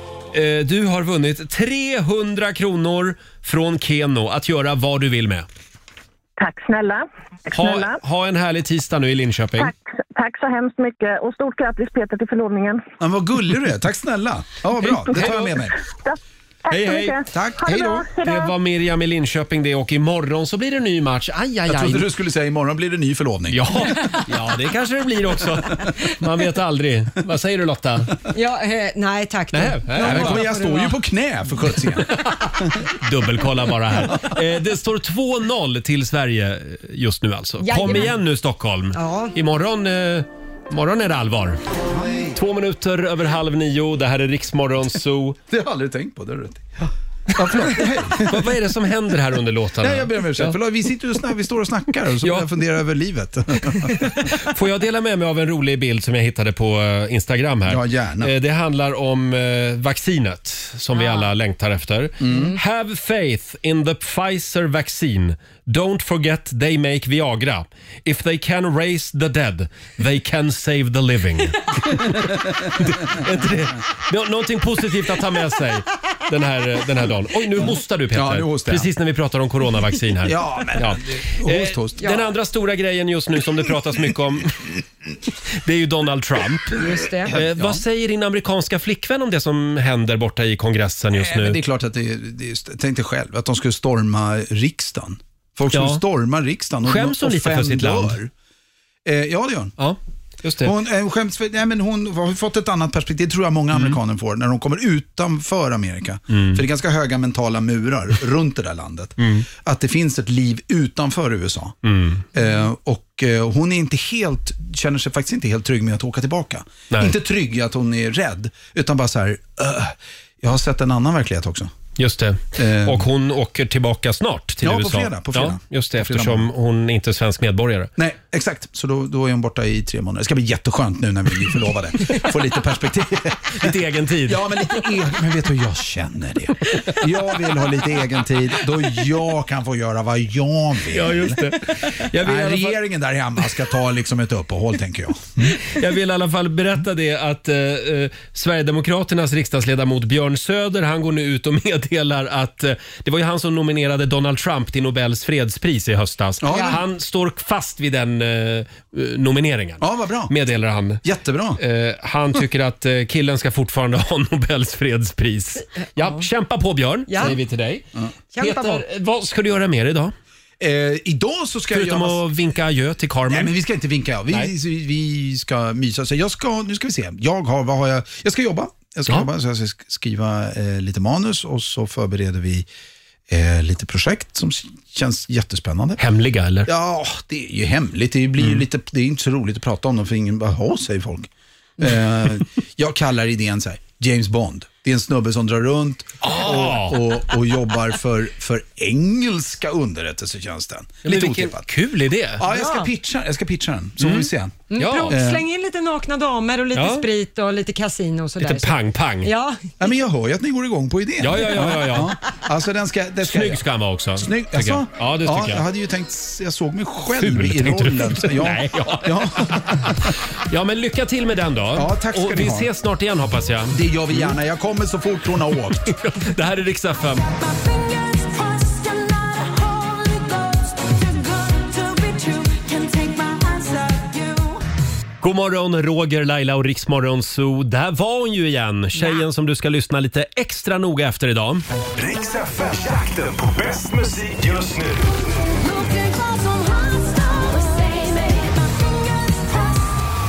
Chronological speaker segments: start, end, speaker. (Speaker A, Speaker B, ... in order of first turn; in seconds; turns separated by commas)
Speaker A: 0.3-5.5, Speaker B: 6.4-8.0, Speaker A: 7.5-9.7, Speaker B: 9.6-12.8, Speaker C: 13.0-15.8, Speaker A: 14.9-15.6, Speaker B: 15.1-18.5, Speaker A: 16.7-17.2, Speaker C: 17.3-18.1, Speaker A: 18.2-22.1, Speaker C: 21.7-23.6, Speaker A: 23.5-28.2, Speaker D: 28.3-31.0, Speaker A: 29.5-30.5, Speaker C: 29.9-32.8, Speaker A: 32.0-41.6, Speaker D: 37.6-38.1, Speaker D: 38.9-39.4, Speaker C: 41.9-42.4, Speaker A: 42.3-45.4, Speaker C: 45.5-46.8, Speaker A: 47.4-50.6, Speaker C: 47.4-48.5, Speaker C: 49.8-54.0, Speaker A: 52.2-52.5, Speaker A: 53.7-84.7, Speaker C: 57.7-58.3, Speaker D: 61.0-61.3, Speaker C: 62.2-62.6, Speaker D: 62.3-62.6, Speaker C: 78.1-78.9, Speaker C: 80.2-82.1, Speaker D: 82.0-82.3, Speaker A: 85.5-91.6, Speaker D: 86.8-87.4, Speaker C: 87.2-87.8, Speaker C: 91.1-98.3, Speaker A: 95.7-96.0, Speaker A: 96.8-98.2, Speaker C: 99.0-99.8, Speaker A: 99.8-100.7, Speaker C: 100.6-111.8, Speaker A: 106.3-106.6, Speaker A: 109.2-109.5, Speaker A: 111.8-112.2, Speaker C: 112.3-121.7, Speaker A: 116.9-117.2, Speaker A: 122.0-127.9, Speaker C: 122.6-123.1, Speaker C: 124.6-126.5, Speaker C: 128.0-145.6, Speaker A: 133.5-134.5, Speaker A: 136.7-137.0, Speaker A: 140.9-142.8, Speaker A: 145.5-161.0, Speaker C: 156.4-156.8, Speaker D: 156.4-156.8, Speaker C: 159.8-160.3, Speaker C: 161.0-161.6, Speaker A: 161.6-167.9, Speaker D: 165.9-166.3, Speaker D: 167.1-167.4, Speaker D: 168.3-168.8, Speaker A: 168.4-170.1, Speaker C: 170.6-172.2, Speaker A: 171.7-173.6, Speaker C: 173.3-182.7, Speaker C: 183.3-186.0, Speaker A: 186.0-186.7, Speaker C: 186.7-201.7, Speaker A: 196.2-197.0, Speaker A: 201.0-202.4, Speaker C: 202.4-205.4, Speaker D: 202.4-202.9, Speaker A: 204.0-205.2, Speaker D: 204.7-209.9, Speaker A: 206.7-207.1, Speaker A: 208.4-209.3, Speaker C: 209.8-213.6, Speaker A: 211.2-212.2, Speaker A: 213.2-215.6, Speaker C: 214.2-220.1, Speaker A: 217.2-224.4, Speaker C: 221.8-222.7, Speaker C: 223.7-225.9, Speaker A: 225.9-227.3, Speaker D: 227.3-234.6, Speaker A: 235.2-241.6, Speaker D: 238.9-239.2, Speaker E: 242.0-245.1, Speaker D: 245.6-249.8